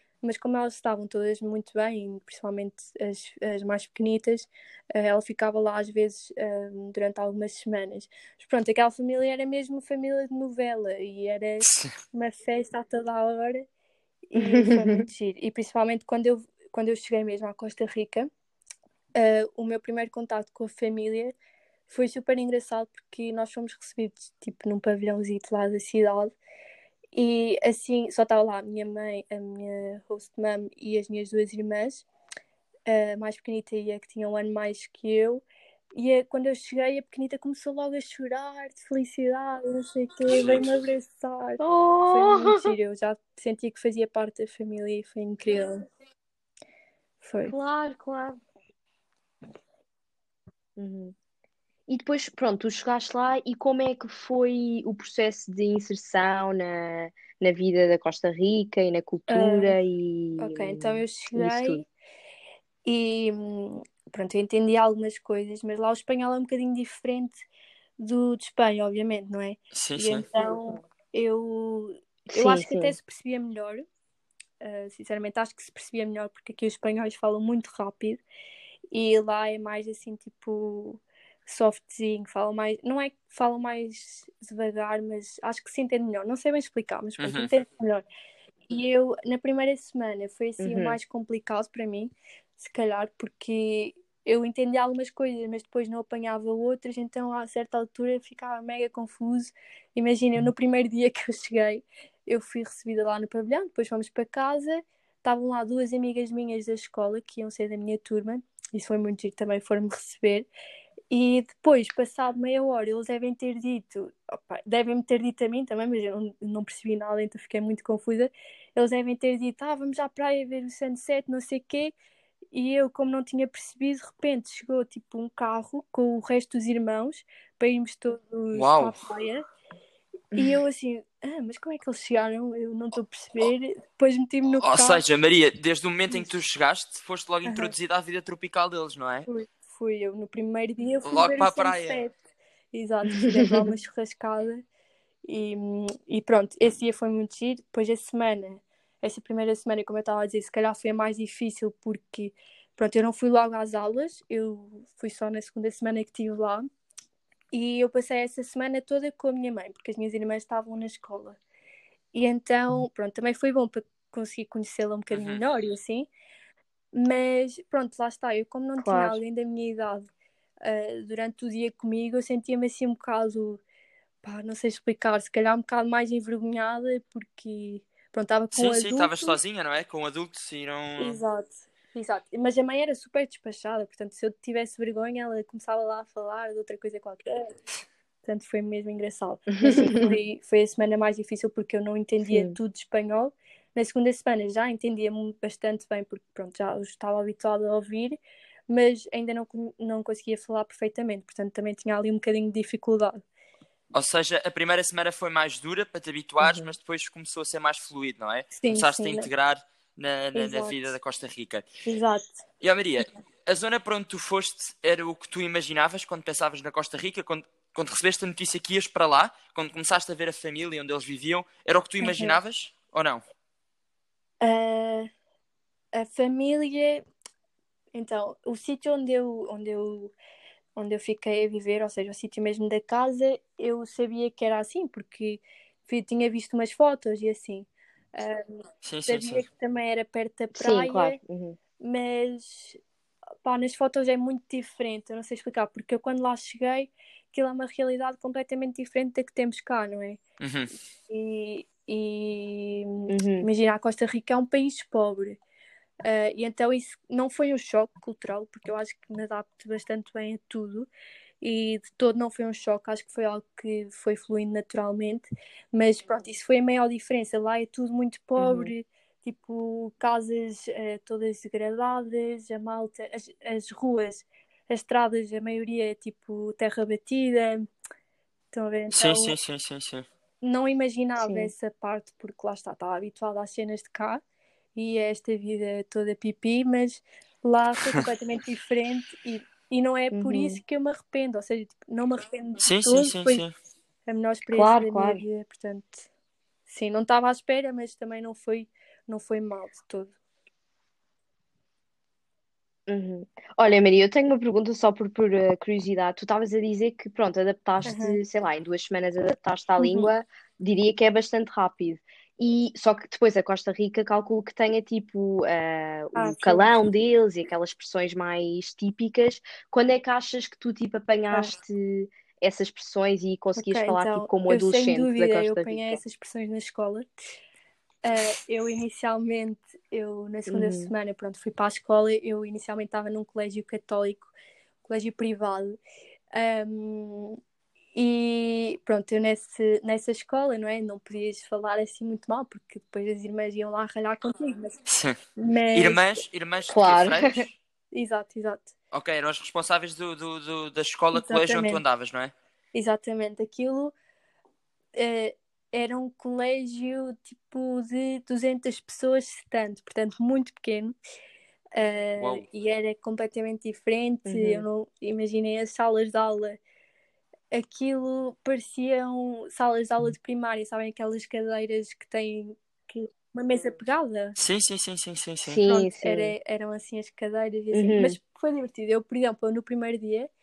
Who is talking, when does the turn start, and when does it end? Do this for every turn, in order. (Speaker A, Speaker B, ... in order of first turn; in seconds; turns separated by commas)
Speaker A: 0.2-13.7, Speaker B: 11.6-11.9, Speaker A: 14.3-18.3, Speaker C: 14.4-15.1, Speaker A: 19.1-21.4, Speaker A: 21.9-26.3, Speaker A: 27.1-32.0, Speaker A: 32.9-45.9, Speaker B: 40.3-40.7, Speaker C: 41.6-42.7, Speaker A: 47.2-47.5, Speaker C: 47.5-48.4, Speaker C: 50.8-51.1, Speaker C: 51.9-61.9, Speaker A: 59.3-59.8, Speaker A: 60.4-61.8, Speaker A: 62.8-67.5, Speaker A: 68.0-73.9, Speaker B: 69.7-70.2, Speaker C: 72.3-73.0, Speaker A: 74.6-78.2, Speaker A: 78.9-88.0, Speaker B: 87.2-87.5, Speaker A: 88.7-110.5, Speaker C: 90.6-91.0, Speaker A: 111.1-121.9, Speaker A: 122.5-129.4, Speaker B: 128.5-129.0, Speaker C: 130.3-130.6, Speaker A: 130.3-135.0, Speaker B: 134.6-139.3, Speaker A: 137.5-137.7, Speaker A: 139.2-142.1, Speaker B: 141.0-142.0, Speaker A: 142.7-144.6, Speaker A: 145.3-156.7, Speaker A: 157.5-161.4, Speaker A: 162.1-166.1, Speaker B: 165.1-165.4, Speaker A: 166.9-170.1, Speaker C: 168.8-169.2, Speaker A: 170.6-173.6, Speaker A: 174.2-179.4, Speaker B: 178.5-181.2, Speaker A: 181.0-187.5, Speaker A: 188.2-203.2, Speaker C: 189.6-190.2, Speaker C: 192.3-192.6, Speaker B: 203.9-211.7, Speaker C: 206.4-206.7, Speaker A: 208.6-209.3, Speaker A: 210.3-210.9, Speaker A: 211.8-212.4, Speaker B: 212.6-223.2, Speaker A: 222.0-222.4, Speaker A: 224.4-225.1, Speaker A: 225.9-227.0, Speaker A: 227.9-230.1, Speaker A: 230.8-241.2, Speaker B: 238.8-239.4, Speaker C: 240.5-241.6, Speaker A: 241.8-242.8, Speaker A: 243.4-250.2, Speaker B: 250.4-250.7, Speaker A: 251.1-255.4, Speaker C: 253.1-253.5, Speaker A: 256.0-260.9, Speaker A: 261.4-277.6, Speaker C: 268.4-268.7, Speaker A: 278.5-279.3, Speaker B: 278.9-280.1, Speaker A: 280.4-284.2, Speaker C: 281.2-281.5, Speaker A: 284.8-293.4, Speaker C: 290.1-290.6, Speaker B: 292.6-293.5, Speaker A: 294.1-296.1, Speaker C: 294.5-295.2, Speaker A: 296.7-300.1, Speaker C: 302.9-326.0, Speaker A: 307.8-308.2, Speaker A: 309.8-310.1, Speaker A: 316.1-316.7, Speaker A: 323.5-327.1, Speaker A: 328.0-334.3, Speaker C: 330.5-330.9, Speaker A: 334.8-335.8, Speaker A: 336.3-337.4, Speaker A: 337.9-344.8, Speaker B: 344.9-345.2, Speaker A: 345.4-346.2, Speaker B: 345.7-347.5, Speaker C: 346.7-347.5, Speaker A: 347.9-348.7, Speaker B: 348.9-352.3, Speaker A: 351.1-351.8, Speaker A: 352.7-353.9, Speaker A: 354.9-360.9, Speaker A: 361.8-366.6, Speaker B: 362.2-362.4, Speaker C: 364.2-364.6, Speaker A: 367.5-374.4, Speaker B: 374.4-375.6, Speaker C: 375.5-376.3, Speaker A: 375.6-380.3, Speaker C: 377.7-378.2